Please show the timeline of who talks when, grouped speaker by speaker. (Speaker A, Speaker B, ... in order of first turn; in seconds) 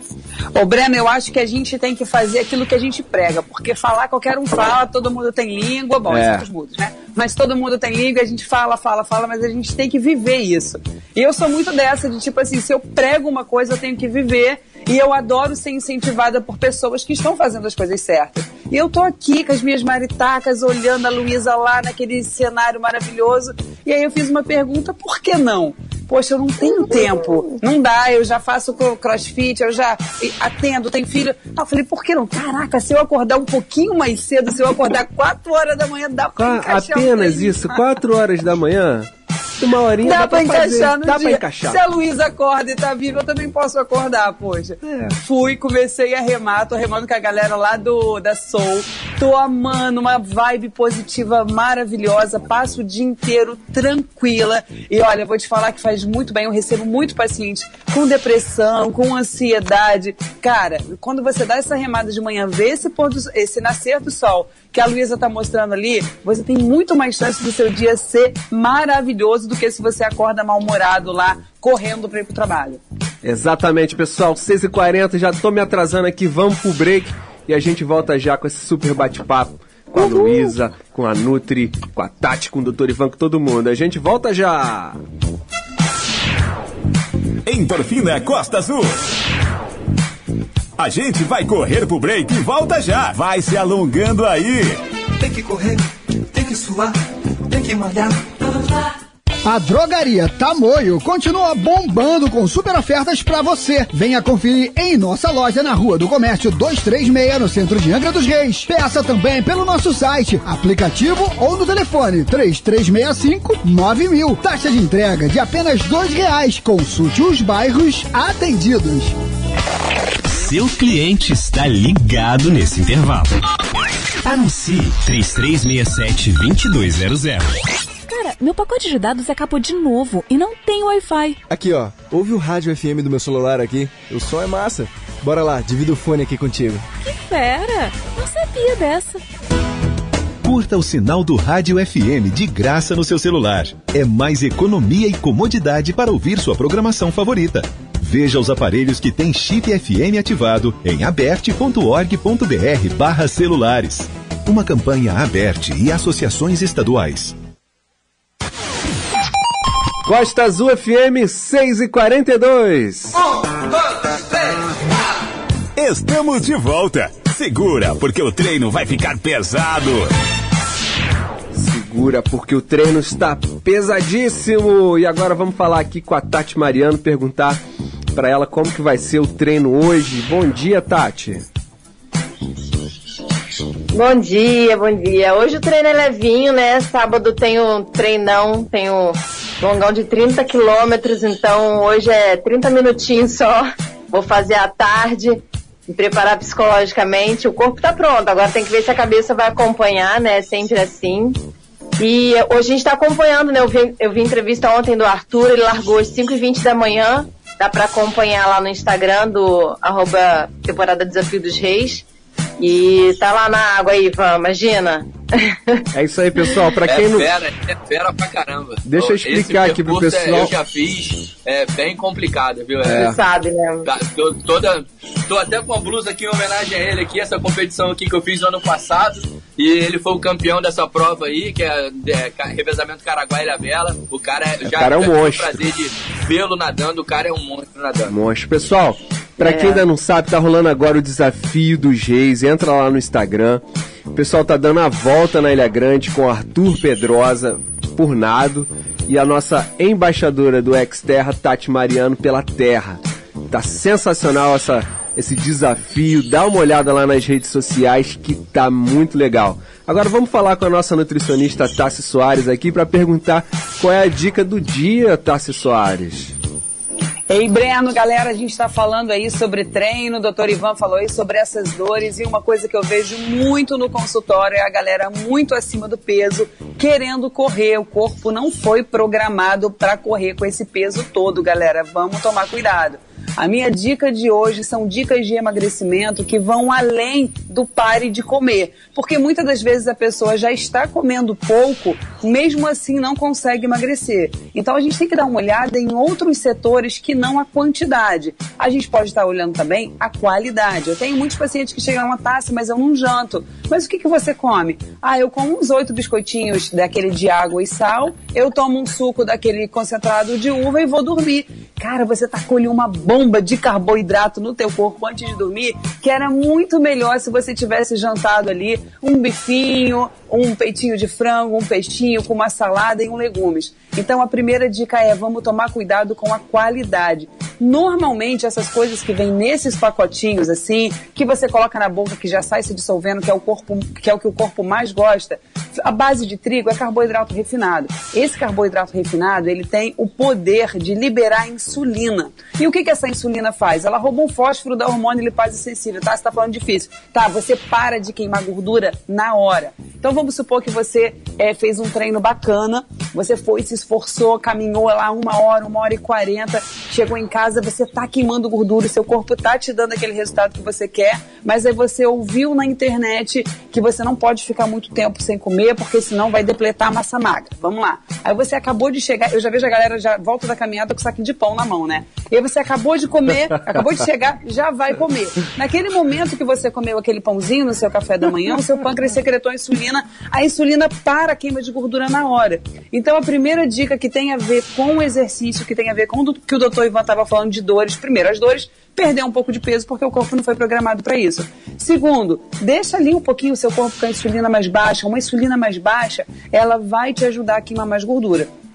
Speaker A: 0.5-37.9, 40.0-72.8, 80.0-80.5, 267.3-398.5
Speaker B: 6.1-6.5, 36.4-41.8, 73.2-85.0, 160.0-163.2, 171.5-177.6, 178.1-181.4, 215.9-217.3, 218.8-220.5, 222.8-223.2, 234.6-235.7, 238.1-266.3
Speaker C: 87.4-89.0, 90.8-94.8, 165.8-170.1
Speaker D: 95.2-98.9
Speaker E: 99.4-119.1
Speaker F: 120.3-123.3, 124.2-127.5
Speaker G: 128.1-131.4, 137.0-139.2
Speaker H: 131.5-136.9
Speaker I: 140.4-157.3
Speaker J: 183.9-201.4, 202.0-212.0, 212.6-215.8, 222.9-223.9, 239.4-239.8
Speaker K: 216.8-223.1, 223.8-238.1